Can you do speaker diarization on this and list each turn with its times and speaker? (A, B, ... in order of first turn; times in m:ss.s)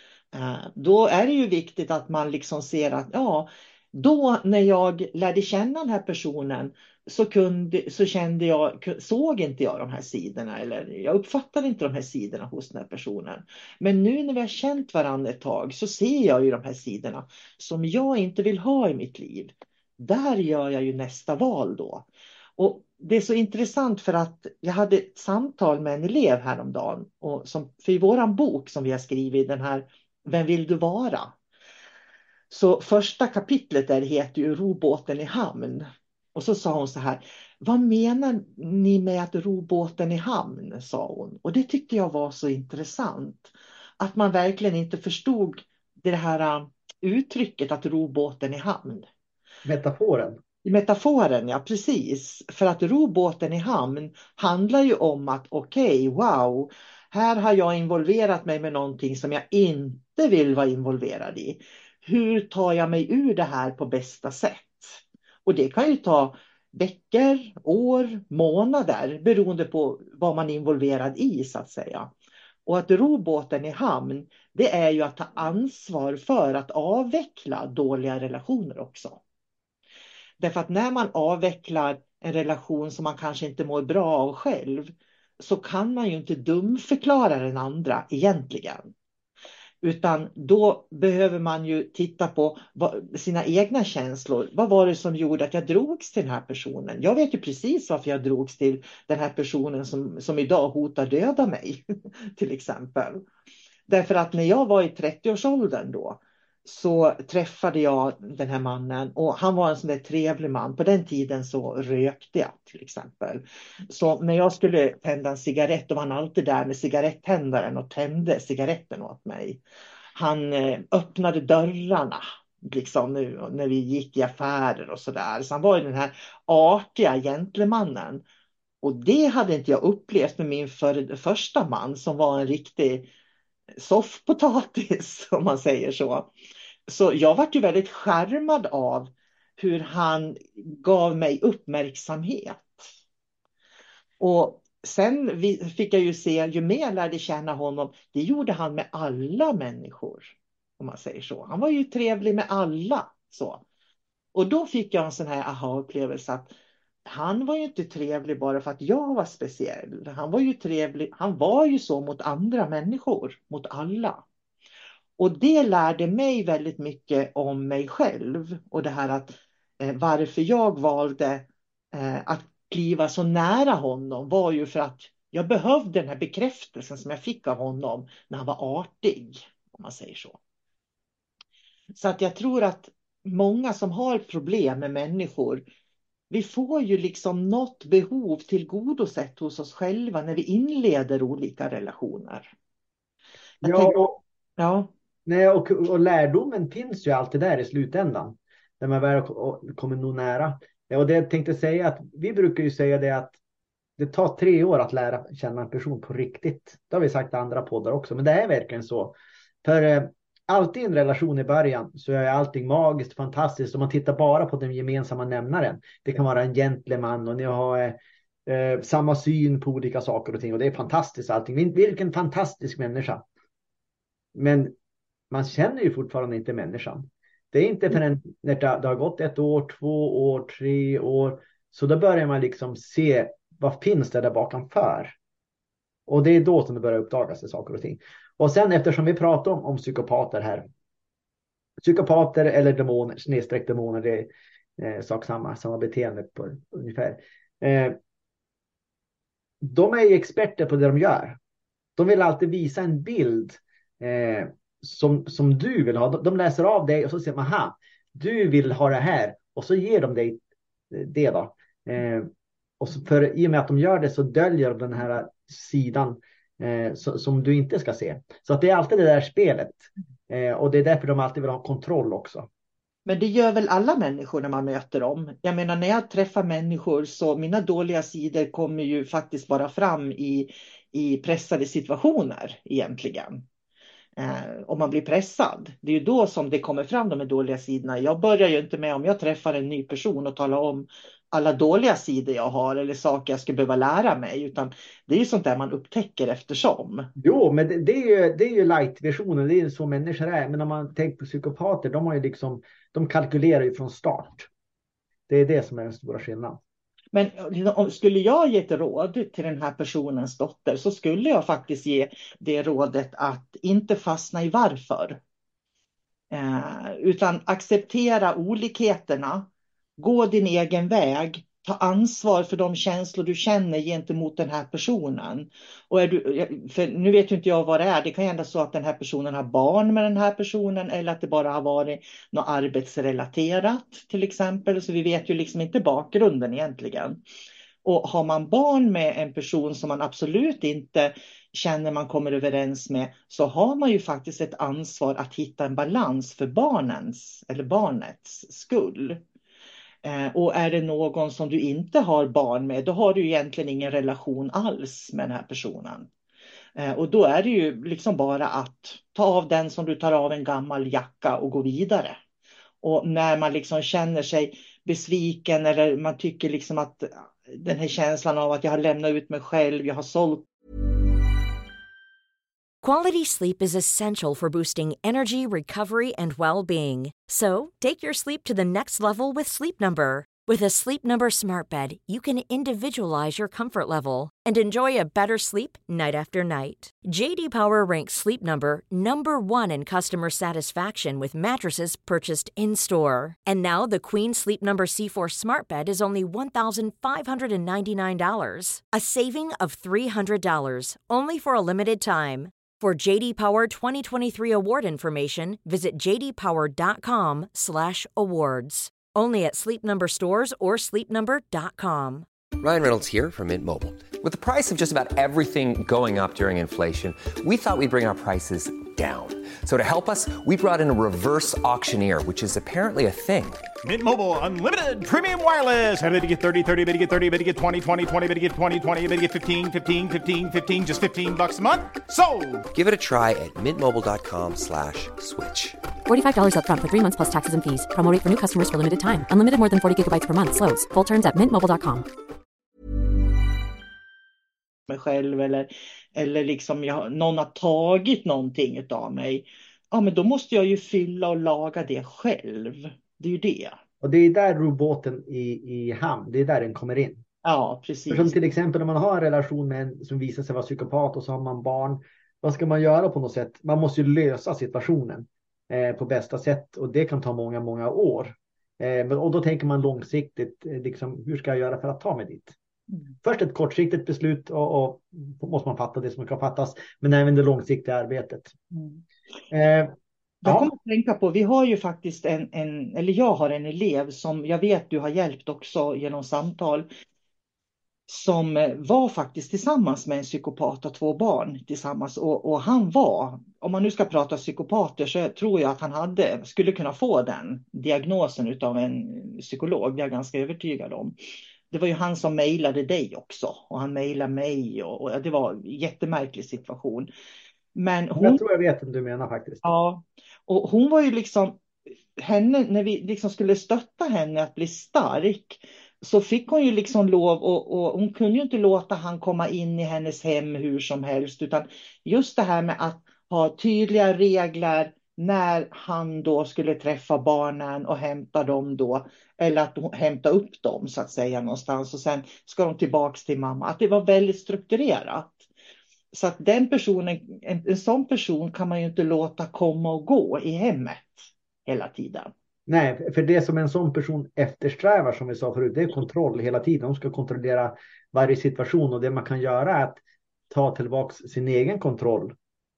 0:00.3-0:22.1 A
0:22.6-0:31.4 A
0:32.5-0:49.1 A
0:49.6-0:50.4 B
0:50.6-1:12.1 A
1:12.7-1:19.2 A
1:20.4-1:28.9 A
1:29.8-1:41.8 A
1:42.4-1:43.2 A
1:43.9-1:59.6 A
2:00.2-2:08.2 A
2:08.8-2:13.1 A
2:13.8-2:16.3 A
2:16.9-2:22.8 A
2:24.2-2:33.6 A
2:34.3-2:36.5 A
2:37.1-2:44.2 A
2:45.2-3:00.4 A
3:02.0-3:05.6 A
3:06.3-3:12.5 A
3:13.6-3:14.0 A
3:13.6-3:14.2 B
3:14.6-3:14.9 A
3:15.3-3:23.4 B
3:24.0-3:43.2 B
3:44.4-3:44.8 B
3:45.3-3:55.2 B
3:56.1-4:00.7 B
4:01.8-4:08.0 B
4:09.6-4:11.4 B
4:12.0-4:32.5 B
4:33.1-4:43.4 A
4:44.2-4:57.1 A
4:57.2-5:04.5 B
5:05.3-5:06.6 B
5:07.1-5:15.2 A
5:16.3-5:37.2 A
5:37.8-5:49.2 A
5:50.0-5:56.1 A
5:56.8-6:02.2 A
6:02.8-6:10.5 A
6:12.8-6:52.3 C
6:52.6-7:03.6 D
7:03.8-7:12.7 E
7:12.7-7:15.8 D
7:16.1-7:22.1 F
7:24.9-7:33.8 A
7:34.0-7:37.2 B
7:37.4-7:38.4 A
7:38.1-7:52.6 B
7:53.2-7:58.6 B
7:58.7-7:59.0 A
7:59.5-8:00.7 B
8:00.4-8:06.9 A
8:08.1-8:21.2 A
8:21.7-8:27.1 A
8:27.8-8:28.4 A
8:28.2-8:29.6 B
8:29.6-8:31.6 A
8:32.2-8:55.5 A
8:56.1-9:02.3 A
9:02.7-9:12.4 B